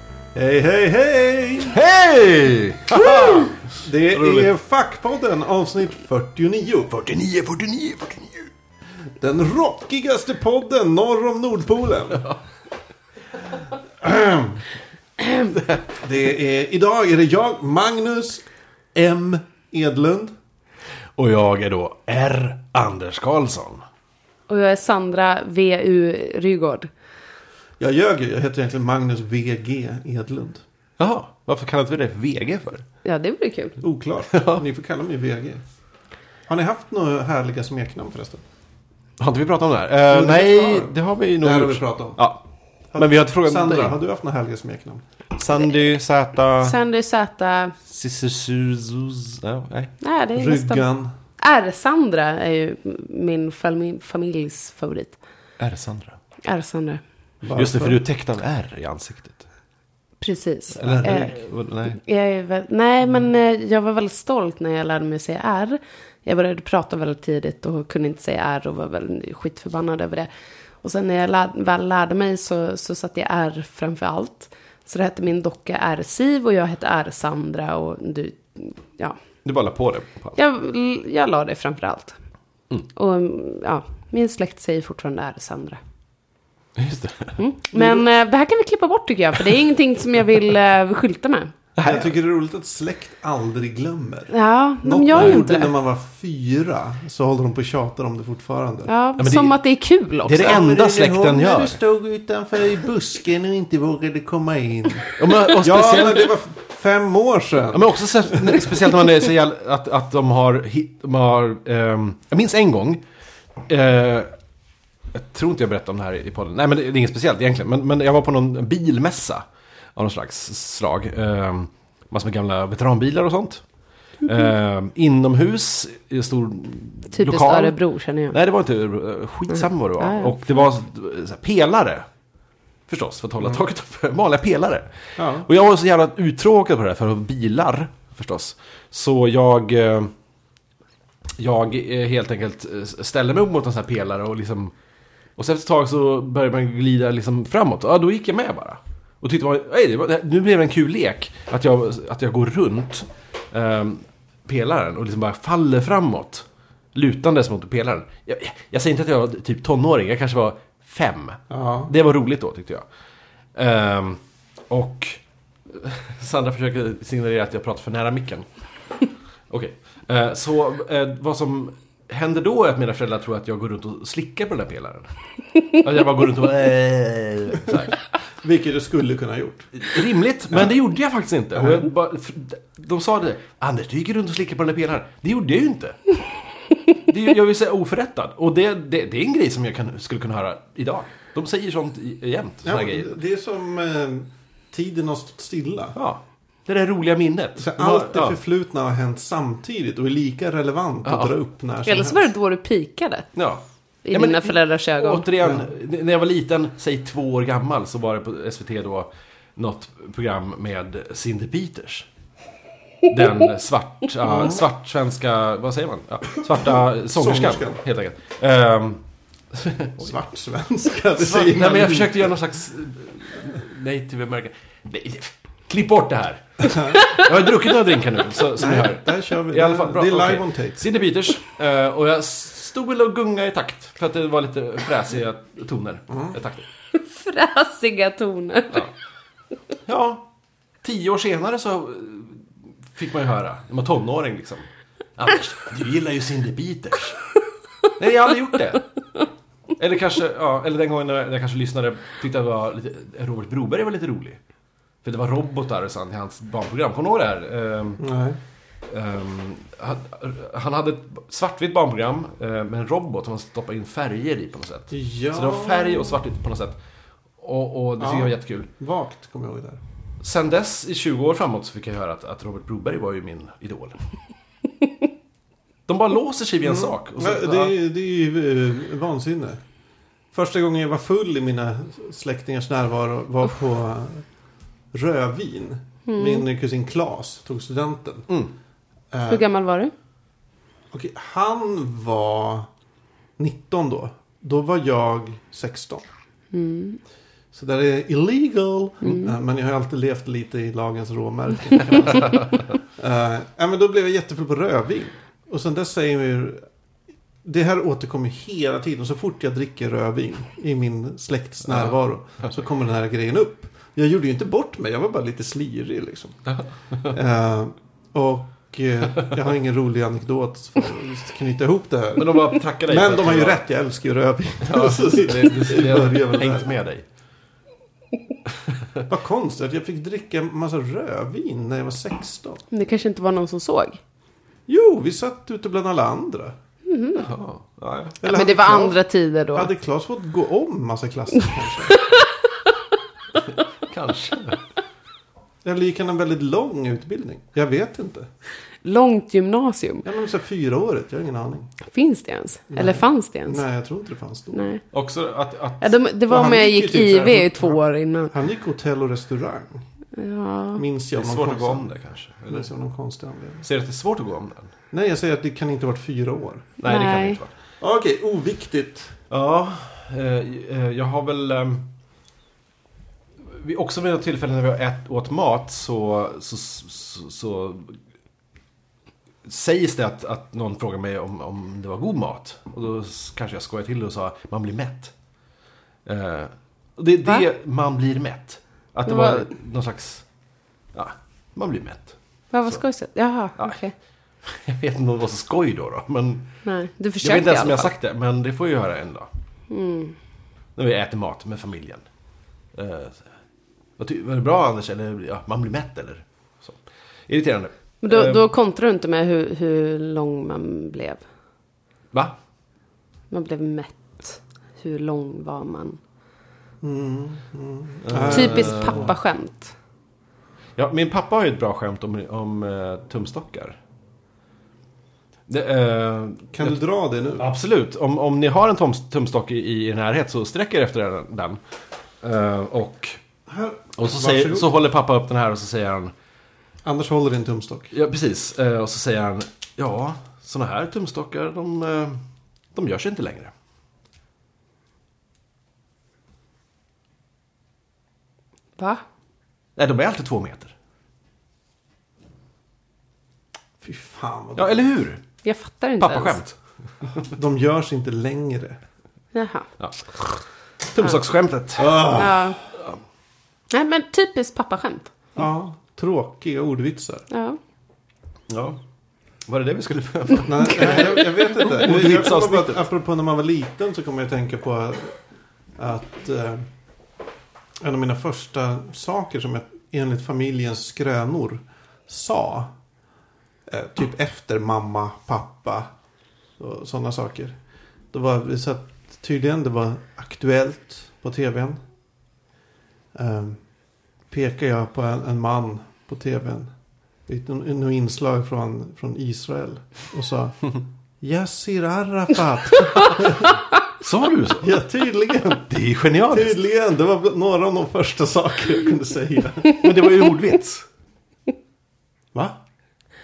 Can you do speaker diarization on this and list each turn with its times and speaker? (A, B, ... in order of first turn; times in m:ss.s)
0:00.4-0:01.8 A
0:01.7-0:04.5 B
0:02.9-0:07.0 A
0:06.9-0:08.5 B
0:09.2-0:12.3 A
0:14.0-0:14.6 A
0:15.5-0:15.8 B
0:16.0-0:20.3 A
0:21.2-0:23.8 B
0:24.5-0:26.9 C
0:27.8-0:30.6 A
0:31.0-0:32.8 B
0:33.0-0:33.8 C
0:33.8-0:35.6 A
0:34.3-0:34.6 B
0:36.5-0:38.4 A
0:39.2-0:42.4 B
0:40.1-0:42.2 A
0:42.9-0:45.0 A
0:43.0-0:44.0 B
0:45.4-0:46.8 B
0:46.6-0:47.8 C
0:47.8-0:49.9 B
0:50.0-0:50.8 C
0:50.4-0:51.1 A
0:51.4-0:55.2 C
0:55.6-0:56.2 B
0:56.4-0:57.0 C
0:57.4-0:58.0 A
0:57.5-0:59.4 B
1:00.2-1:01.4 C
1:00.8-1:02.0 B
1:00.8-1:01.4 A
1:01.9-1:10.3 C
1:10.8-1:19.2 C
1:19.4-1:20.4 B
1:20.4-1:22.2 C
1:22.9-1:25.8 C
1:26.8-1:27.4 B
1:27.4-1:31.5 C
1:27.7-1:28.0 A
1:31.8-1:32.1 B
1:31.8-1:38.9 A
1:34.3-1:35.7 C
1:35.1-1:35.4 B
1:38.8-1:40.6 C
1:39.2-1:39.6 B
1:40.2-1:41.8 B
1:40.4-1:48.8 A
1:45.2-1:46.3 B
1:47.7-1:53.0 B
1:53.7-1:54.3 B
1:55.1-1:59.4 B
2:00.0-2:03.6 B
2:04.2-2:07.8 B
2:07.1-2:08.4 C
2:08.3-2:12.1 B
2:09.5-2:10.5 C
2:12.9-2:20.1 B
2:15.2-2:15.5 A
2:21.4-2:24.7 B
2:25.4-2:42.8 B
2:41.5-2:41.9 A
2:43.5-2:48.5 B
2:49.5-2:55.1 B
2:55.7-2:58.0 B
2:58.4-2:59.8 A
2:59.7-3:06.2 B
3:01.5-3:01.9 A
3:06.9-3:13.1 B
3:12.6-3:16.0 A
3:16.0-3:18.4 B
3:17.6-3:22.2 A
3:21.0-3:21.3 B
3:21.8-3:23.3 C
3:23.3-3:32.1 B
3:24.0-3:25.3 C
3:33.1-3:39.0 B
3:34.2-3:34.6 A
3:37.1-3:37.8 A
3:39.5-3:40.1 B
3:40.0-3:42.4 A
3:41.2-3:56.7 B
3:46.6-3:47.0 A
3:46.9-3:47.2 C
3:48.5-3:50.8 A
3:56.9-3:58.9 C
3:59.8-4:00.3 B
4:00.8-4:02.4 B
4:02.9-4:07.2 B
4:08.0-4:08.9 B
4:09.8-4:14.4 B
4:15.0-4:18.0 B
4:18.0-4:18.4 A
4:18.9-4:26.8 B
4:24.9-4:26.2 A
4:27.4-4:28.7 B
4:28.0-4:29.8 A
4:30.2-4:34.0 B
4:35.9-4:37.8 B
4:36.6-4:39.6 A
4:40.3-4:44.2 A
4:44.9-4:48.3 A
4:46.1-4:46.4 C
4:49.1-4:49.4 A
4:49.3-4:49.9 C
4:50.9-4:52.7 A
4:53.4-4:56.1 A
4:56.5-4:57.0 C
4:57.5-5:06.7 A
4:59.0-4:59.3 C
5:02.1-5:02.6 B
5:07.4-5:16.4 A
5:16.5-5:17.1 B
5:17.1-5:26.7 A
5:22.2-5:23.6 B
5:24.6-5:27.0 B
5:29.1-5:32.6 A
5:32.7-5:34.0 C
5:34.7-5:36.6 A
5:36.9-5:37.3 C
5:37.2-5:38.3 B
5:38.2-5:39.0 A
5:38.2-5:39.7 C
5:39.5-5:42.0 A
5:43.9-5:44.6 B
5:45.6-5:48.3 A
5:48.8-5:50.1 C
5:50.0-5:51.7 A
5:51.8-5:53.6 C
5:52.7-5:54.7 A
5:54.5-5:54.8 C
5:54.9-5:56.0 B
5:55.8-5:58.3 C
5:56.3-5:57.8 A
5:58.3-5:59.8 A
6:00.1-6:00.8 C
6:00.8-6:01.9 A
6:01.2-6:02.7 B
6:02.5-6:03.7 A
6:03.6-6:04.7 B
6:04.9-6:06.8 A
6:06.8-6:07.5 B
6:06.8-6:07.4 C
6:07.8-6:09.2 A
6:09.3-6:11.9 B
6:13.5-6:18.0 B
6:19.4-6:25.1 B
6:26.1-6:30.2 B
6:29.1-6:29.5 C
6:30.9-6:32.2 B
6:32.5-6:34.0 C
6:34.4-6:36.6 B
6:36.6-6:37.9 C
6:37.2-6:39.3 B
6:39.7-6:40.2 C
6:40.8-6:42.0 B
6:42.7-6:43.2 B
6:44.0-6:48.5 B
6:48.0-6:51.2 C
6:53.3-6:56.0 C
6:56.8-6:59.1 A
6:58.0-6:59.1 B
6:58.3-6:59.7 C
7:00.8-7:03.8 B
7:05.5-7:06.8 B
7:06.5-7:07.5 A
7:07.4-7:11.6 B
7:12.2-7:13.2 B
7:13.5-7:14.7 A
7:14.0-7:16.1 B
7:16.8-7:17.9 A
7:17.9-7:22.2 B
7:22.7-7:23.5 B
7:28.8-7:29.0 C
7:29.8-7:30.7 B
7:33.8-7:34.9 A
7:34.6-7:35.2 B
7:35.4-7:36.4 C
7:36.0-7:36.6 B
7:37.3-7:38.8 A
7:39.3-7:39.7 C
7:39.8-7:43.0 B
7:41.8-7:42.6 A
7:42.1-7:42.6 C
7:43.7-7:45.1 C
7:45.4-7:47.2 A
7:47.3-7:47.6 C
7:48.5-7:48.8 B
7:49.5-7:52.8 B
7:50.4-7:55.2 A
7:55.8-7:56.6 A
7:57.8-8:02.7 A
8:03.7-8:05.9 A
8:06.6-8:07.6 A
8:08.1-8:11.8 A
8:13.1-8:13.6 A
8:14.3-8:16.7 A
8:17.3-8:20.7 A
8:21.2-8:23.6 A
8:24.0-8:24.8 B
8:24.6-8:25.7 A
8:25.6-8:26.6 B
8:26.3-8:29.8 A
8:29.6-8:30.9 B
8:32.3-8:32.6 A